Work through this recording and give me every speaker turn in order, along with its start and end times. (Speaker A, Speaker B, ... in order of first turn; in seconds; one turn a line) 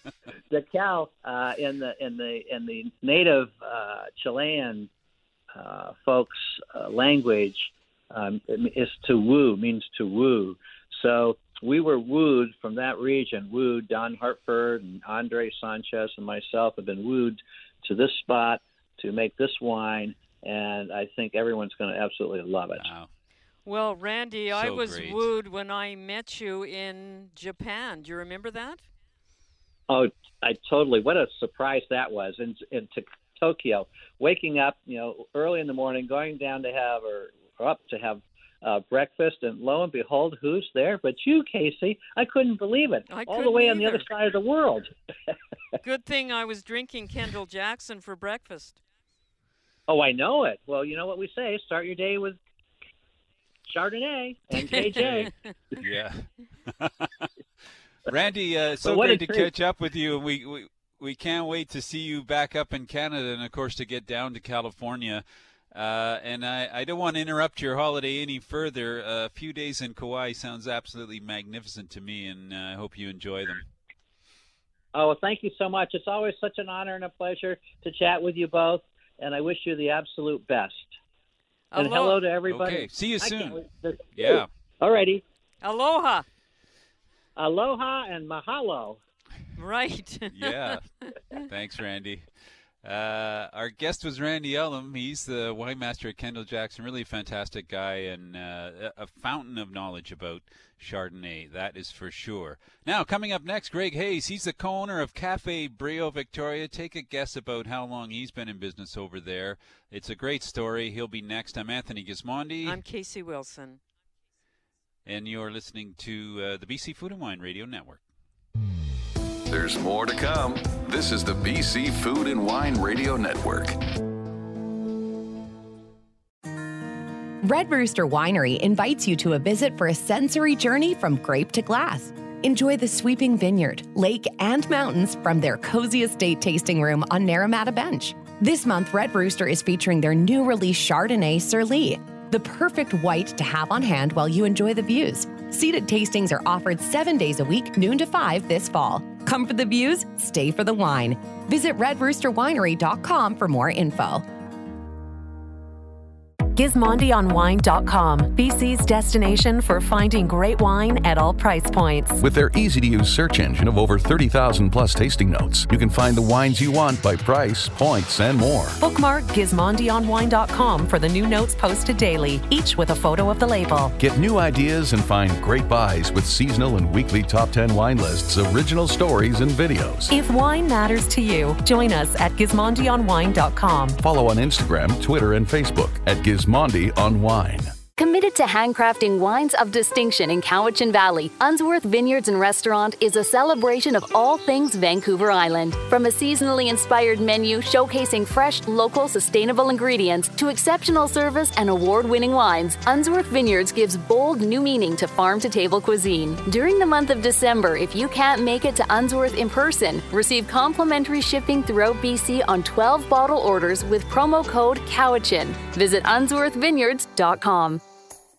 Speaker A: 0.5-4.9
Speaker A: 5.5-22.9
Speaker B: 22.8-23.1
Speaker C: 23.6-28.8
Speaker B: 24.5-25.3
Speaker A: 29.9-44.9
Speaker C: 43.1-44.1
Speaker C: 45.8-48.8
Speaker A: 49.9-52.4
Speaker A: 53.7-55.3
Speaker C: 55.0-55.3
Speaker B: 55.8-57.3
Speaker B: 58.1-73.6
Speaker A: 58.8-59.5
Speaker A: 74.9-80.9
Speaker C: 81.7-82.2
Speaker A: 81.8-85.2
Speaker B: 82.5-83.6
Speaker B: 84.1-84.5
Speaker C: 85.6-86.2
Speaker A: 87.3-89.0
Speaker C: 89.6-90.8
Speaker B: 90.3-92.3
Speaker B: 92.8-112.8
Speaker C: 112.6-113.8
Speaker B: 115.0-118.0
Speaker D: 119.5-123.8
Speaker E: 127.4-154.3
Speaker F: 156.6-162.1
Speaker D: 162.2-168.8
Speaker F: 168.8-173.9
Speaker D: 174.0-180.1
Speaker F: 180.2-183.9
Speaker D: 184.0-187.7
Speaker G: 187.9-217.8